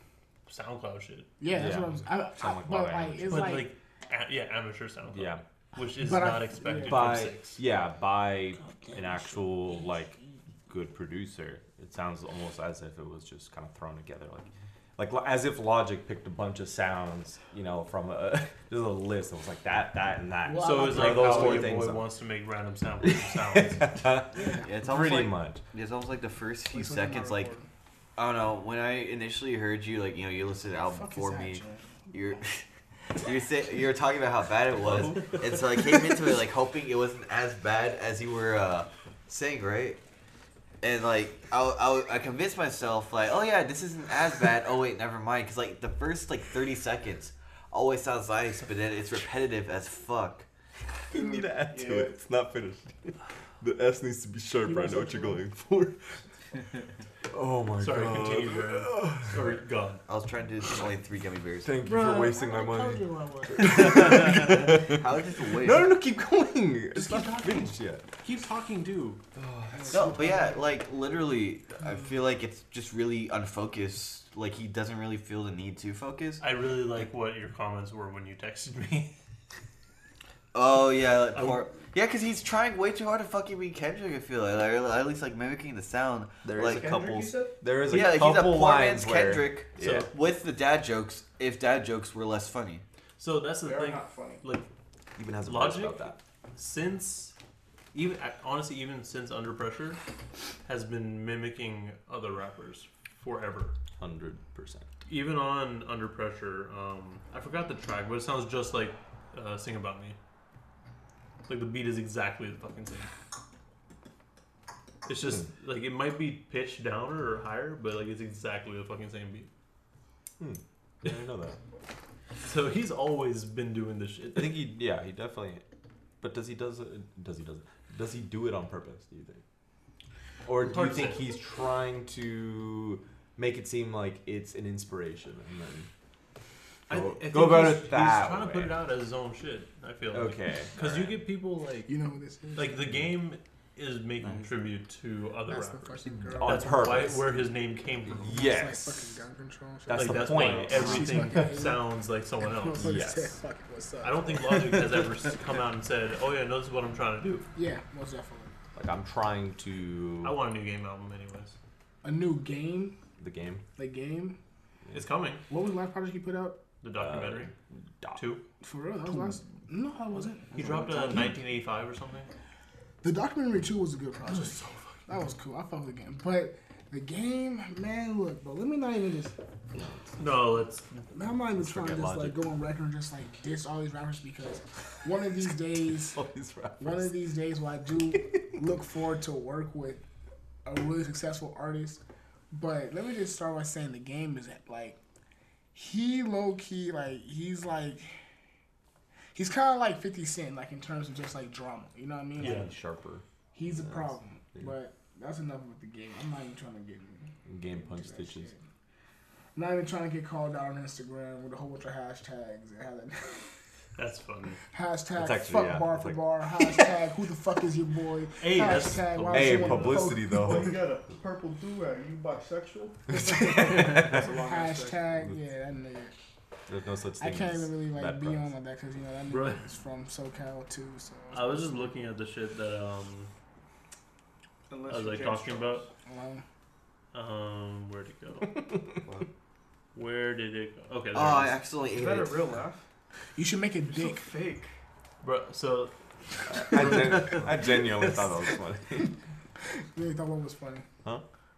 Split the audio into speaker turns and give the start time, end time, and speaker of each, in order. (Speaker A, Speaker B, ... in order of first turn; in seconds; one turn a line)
Speaker A: 0.5-1.3
Speaker B: 1.4-3.7
Speaker C: 1.5-3.6
Speaker A: 3.3-7.6
Speaker C: 5.1-5.4
Speaker B: 5.9-7.2
Speaker C: 6.8-22.1
Speaker B: 8.6-9.7
Speaker B: 20.4-21.8
Speaker A: 20.6-23.9
Speaker C: 23.0-25.6
Speaker B: 24.3-24.7
Speaker D: 24.6-27.5
Speaker B: 26.7-27.7
Speaker D: 28.2-32.5
Speaker B: 30.9-32.5
Speaker D: 33.2-40.0
Speaker A: 34.9-35.4
Speaker D: 40.8-50.5
Speaker C: 51.1-56.2
Speaker E: 51.1-52.2
Speaker B: 54.6-55.4
Speaker C: 57.3-59.6
Speaker A: 57.8-60.0
Speaker D: 60.1-61.8
Speaker C: 61.6-65.0
Speaker B: 61.8-64.0
Speaker D: 63.9-65.9
Speaker C: 65.6-68.0
Speaker A: 67.0-67.7
Speaker A: 68.2-69.2
Speaker C: 69.5-69.9
Speaker B: 69.7-70.6
Speaker D: 69.9-76.4
Speaker A: 76.4-79.1
Speaker D: 80.5-87.0
Speaker A: 81.3-81.7
Speaker C: 86.4-90.1
Speaker E: 86.6-87.6
Speaker D: 87.9-92.8
Speaker A: 89.8-90.1
Speaker A: 93.2-94.7
Speaker E: 93.6-94.5
Speaker C: 95.2-96.2
Speaker A: 95.4-97.3
Speaker A: 97.9-100.0
Speaker A: 100.7-103.8
Speaker C: 104.0-104.9
Speaker A: 105.0-110.2
Speaker A: 111.5-113.1
Speaker A: 115.1-119.5
Speaker C: 120.4-121.6
Speaker A: 122.4-124.6
Speaker C: 124.3-125.7
Speaker C: 126.2-129.4
Speaker C: 130.5-135.9
Speaker A: 130.6-131.2
Speaker C: 136.9-138.8
Speaker A: 136.9-141.9
Speaker C: 140.1-141.2
Speaker B: 141.9-142.9
Speaker A: 142.6-148.4
Speaker B: 145.5-147.2
Speaker C: 146.2-147.3
Speaker C: 148.1-149.1
Speaker B: 148.3-151.9
Speaker C: 149.9-151.6
Speaker A: 149.9-153.0
Speaker B: 152.4-154.6
Speaker C: 152.8-153.4
Speaker A: 154.0-157.5
Speaker B: 157.6-158.5
Speaker C: 158.8-160.4
Speaker A: 160.2-161.6
Speaker B: 162.0-163.0
Speaker C: 163.2-163.6
Speaker B: 163.8-164.4
Speaker A: 164.9-165.4
Speaker B: 165.5-166.6
Speaker A: 166.8-167.5
Speaker C: 166.9-168.3
Speaker A: 168.2-168.4
Speaker B: 168.6-171.4
Speaker A: 170.5-172.3
Speaker B: 173.0-179.3
Speaker A: 174.3-175.0
Speaker C: 179.8-180.5
Speaker A: 180.2-181.1
Speaker B: 181.1-186.2
Speaker C: 181.5-182.5
Speaker C: 186.0-187.1
Speaker B: 186.8-190.0
Speaker B: 190.7-192.0
Speaker B: 192.5-195.0
Speaker B: 195.7-198.2
Speaker B: 199.3-202.7
Speaker C: 202.4-204.7
Speaker A: 202.4-202.7
Speaker B: 203.6-208.6
Speaker C: 207.5-208.5
Speaker B: 209.6-213.5
Speaker A: 214.0-214.6
Speaker B: 214.7-220.8
Speaker C: 215.2-216.3
Speaker A: 218.4-220.1
Speaker C: 219.3-220.8
Speaker E: 220.2-225.1
Speaker B: 223.2-226.1
Speaker C: 223.3-224.3
Speaker C: 226.7-228.5
Speaker B: 227.2-231.9
Speaker A: 229.3-229.6
Speaker A: 231.3-233.3
Speaker E: 234.7-235.9
Speaker A: 234.9-235.9
Speaker B: 236.1-236.4
Speaker A: 237.1-238.6
Speaker A: 239.9-241.6
Speaker D: 241.1-242.7
Speaker E: 241.9-242.9
Speaker B: 243.3-244.3
Speaker E: 243.8-244.7
Speaker A: 245.2-245.9
Speaker C: 246.5-249.1
Speaker A: 246.6-247.1
Speaker B: 249.8-250.9